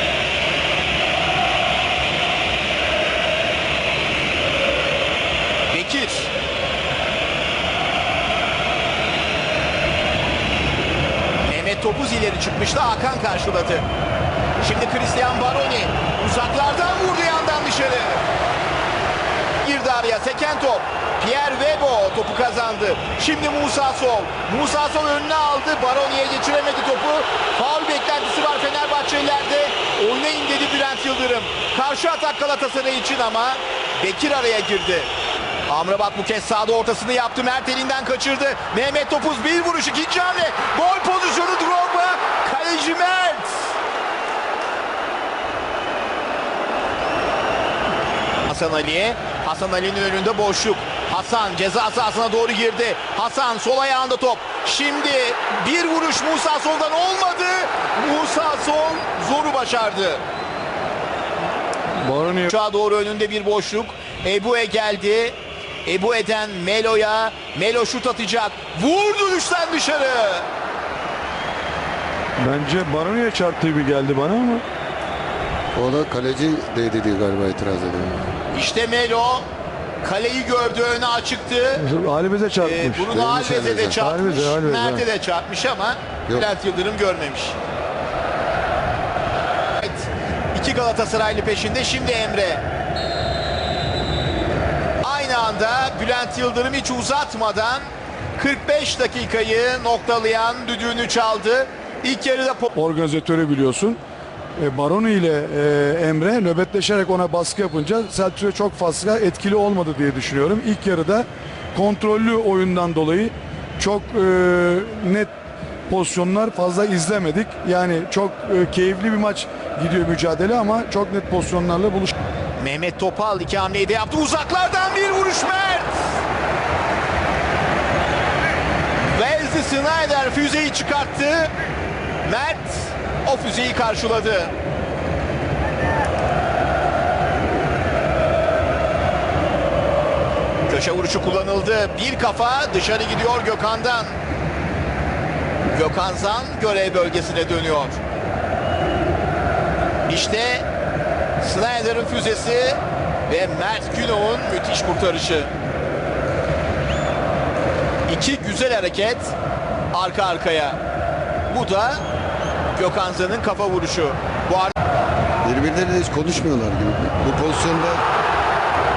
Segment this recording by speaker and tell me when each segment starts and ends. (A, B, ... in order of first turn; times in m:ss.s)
0:05.7-0:06.3 A
0:11.5-0:13.8 A
0:14.6-0:18.2 A
0:19.6-0:35.1 A
0:35.7-0:43.7 A
0:48.4-1:00.2 A
1:02.0-1:02.5 B
1:02.4-1:10.5 A
1:12.4-1:14.6 B
1:15.7-1:18.3 C
1:18.5-1:19.5 A
1:20.0-1:21.8 A
1:21.8-1:23.2 B
1:22.6-1:27.6 A
1:23.1-1:24.0 C
1:24.0-1:25.1 B
1:29.8-1:32.6 A
1:35.0-1:37.8 A
1:38.4-1:42.7 A
1:42.7-1:44.0 B
1:44.6-1:55.3 B
1:55.9-2:02.1 B
2:02.6-2:06.1 A
2:09.1-2:11.5 A
2:12.2-2:14.5 A
2:20.7-2:24.1 A
2:25.7-2:28.0 A
2:30.1-2:30.7 A
2:31.4-2:35.5 A
2:38.1-2:39.3 A
2:39.9-2:40.8 A
2:41.5-2:42.0 A
2:42.8-2:44.7 A
2:45.4-2:48.0 C